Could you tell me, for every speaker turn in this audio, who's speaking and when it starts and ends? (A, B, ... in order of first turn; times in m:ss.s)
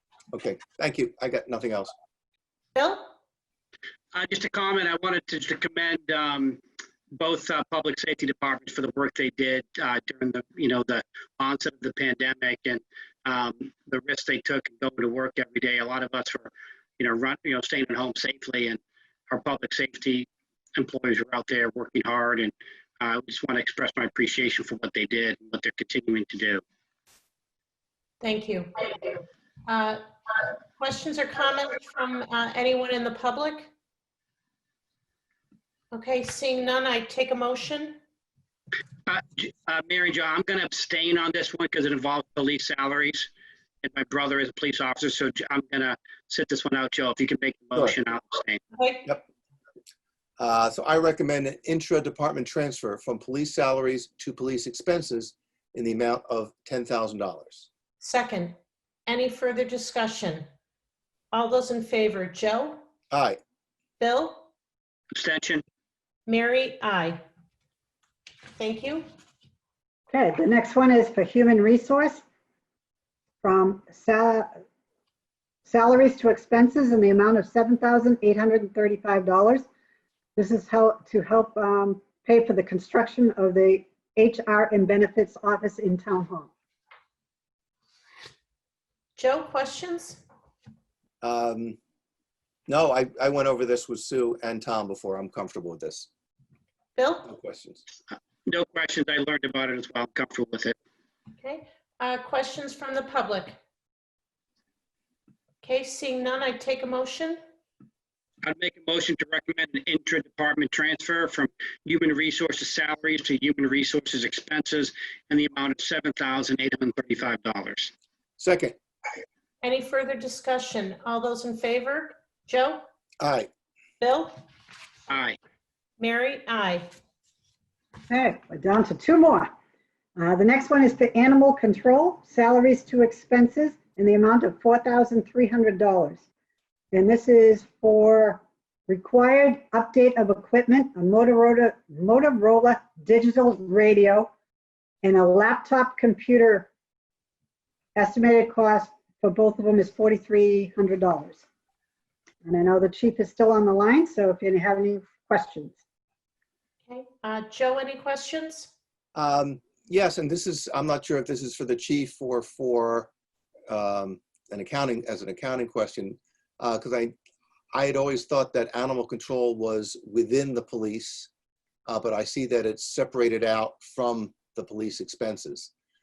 0:00.3-0:01.9 A
0:02.8-0:03.1 B
0:04.1-0:06.6 C
0:07.1-0:18.8 C
0:19.3-0:26.6 C
0:28.2-0:30.0 B
0:30.8-0:33.7 B
0:35.9-0:38.0 B
0:39.1-0:43.3 C
0:43.8-0:48.6 C
0:48.8-0:49.1 B
0:50.4-0:57.7 A
0:58.0-1:00.5 B
1:01.3-1:02.8 B
1:03.1-1:03.4 A
1:04.0-1:04.5 B
1:05.1-1:05.6 C
1:06.3-1:07.2 B
1:08.6-1:09.0 B
1:10.1-1:12.2 D
1:13.4-1:14.5 D
1:15.7-1:19.6 D
1:20.4-1:26.5 D
1:29.2-1:30.2 B
1:31.2-1:31.8 A
1:32.7-1:36.1 A
1:37.0-1:37.3 B
1:37.2-1:37.8 A
1:38.5-1:40.8 C
1:41.4-1:43.6 B
1:45.6-1:47.4 B
1:48.4-1:57.9 C
1:58.4-1:58.8 A
1:59.6-2:02.8 B
2:03.2-2:03.5 A
2:04.0-2:04.4 B
2:05.1-2:05.4 C
2:06.0-2:06.9 B
2:08.1-2:09.5 D
2:10.2-2:16.2 D
2:16.9-2:24.3 D
2:25.0-2:26.7 D
2:28.0-2:31.4 D
2:32.4-2:35.8 D
2:36.9-2:38.7 B
2:39.2-2:43.1 A
2:43.7-2:47.2 A
2:47.7-2:51.3 A
2:51.9-2:55.7 A